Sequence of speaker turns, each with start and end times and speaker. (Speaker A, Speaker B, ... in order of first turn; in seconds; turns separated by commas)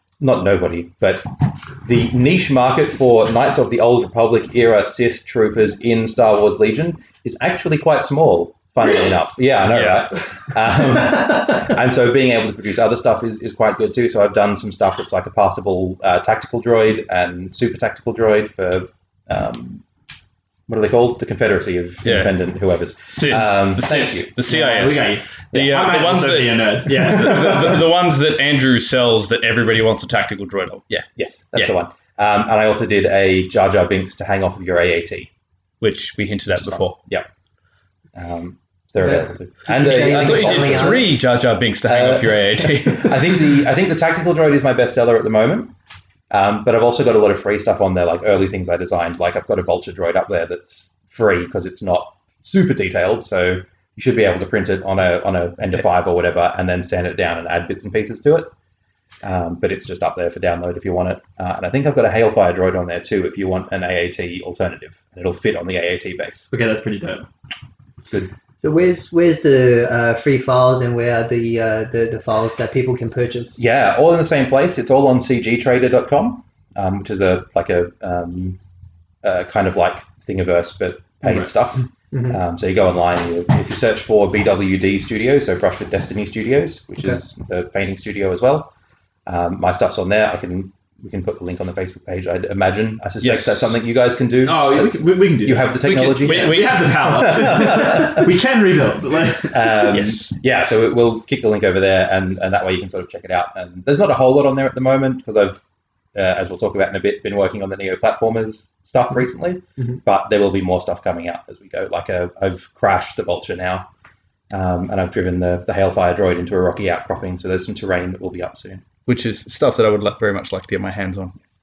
Speaker A: 0.2-19.8, Speaker B: 9.6-10.1, Speaker A: 20.7-24.3, Speaker B: 22.0-22.4, Speaker B: 23.1-31.7, Speaker C: 24.4-27.9, Speaker A: 31.1-35.3, Speaker B: 35.8-37.0, Speaker A: 36.6-37.3, Speaker A: 38.1-41.2, Speaker D: 39.0-41.1, Speaker B: 39.9-43.4, Speaker A: 41.9-45.7, Speaker A: 46.3-58.5, Speaker A: 59.2-66.4, Speaker C: 66.5-67.3, Speaker D: 68.6-73.6, Speaker A: 73.6-78.6, Speaker A: 79.2-88.7, Speaker A: 89.2-98.3, Speaker B: 93.2-93.8, Speaker C: 94.4-99.8, Speaker B: 95.8-97.8, Speaker A: 99.5-105.6, Speaker B: 99.9-100.3, Speaker A: 106.1-113.9, Speaker A: 114.5-118.8, Speaker B: 119.0-121.4